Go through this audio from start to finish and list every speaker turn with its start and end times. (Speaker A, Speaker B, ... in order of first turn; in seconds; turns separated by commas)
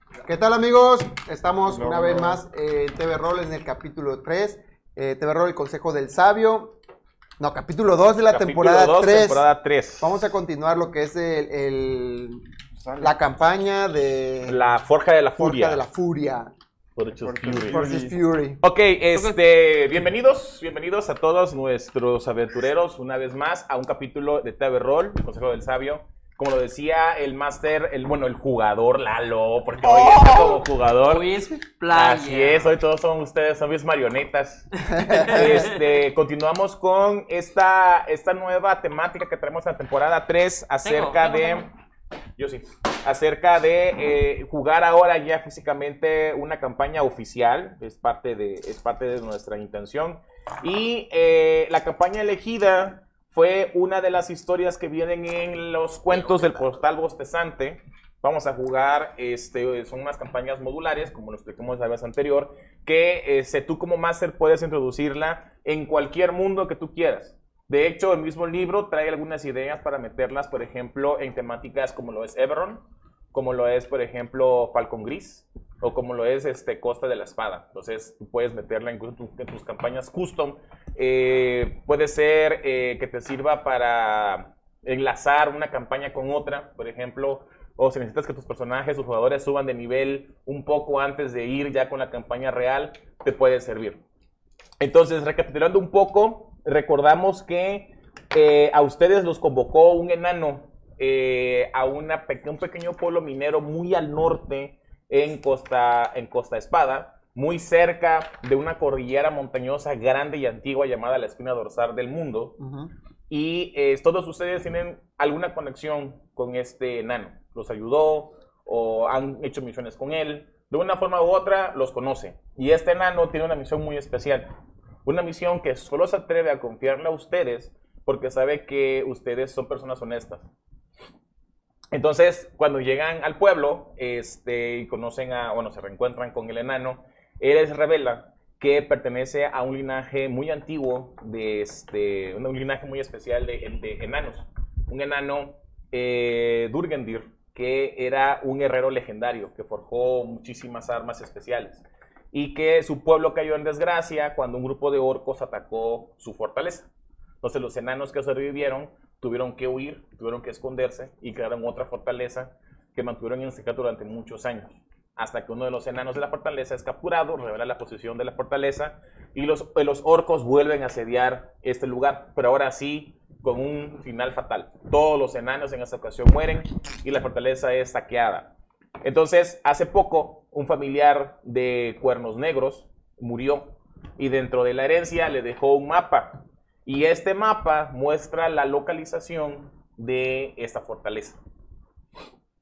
Speaker A: 0.2-6.8, Speaker B: 1.6-2.4, Speaker A: 7.4-9.5, Speaker C: 8.3-10.2, Speaker A: 10.0-12.4, Speaker B: 12.8-13.2, Speaker A: 13.0-14.7, Speaker C: 14.4-15.8, Speaker A: 15.4-16.5, Speaker C: 17.0-17.9, Speaker B: 17.1-18.2, Speaker A: 17.7-18.6, Speaker C: 18.6-31.3, Speaker A: 30.0-30.6, Speaker D: 31.0-32.7, Speaker C: 31.9-34.7, Speaker A: 34.9-35.7, Speaker D: 34.9-35.8, Speaker C: 35.2-41.7, Speaker D: 40.8-41.7, Speaker C: 42.4-94.0, Speaker C: 94.8-112.5, Speaker A: 112.6-112.9, Speaker C: 113.3-124.5, Speaker C: 125.0-130.5, Speaker C: 131.9-156.9, Speaker C: 157.4-178.5, Speaker C: 179.0-191.4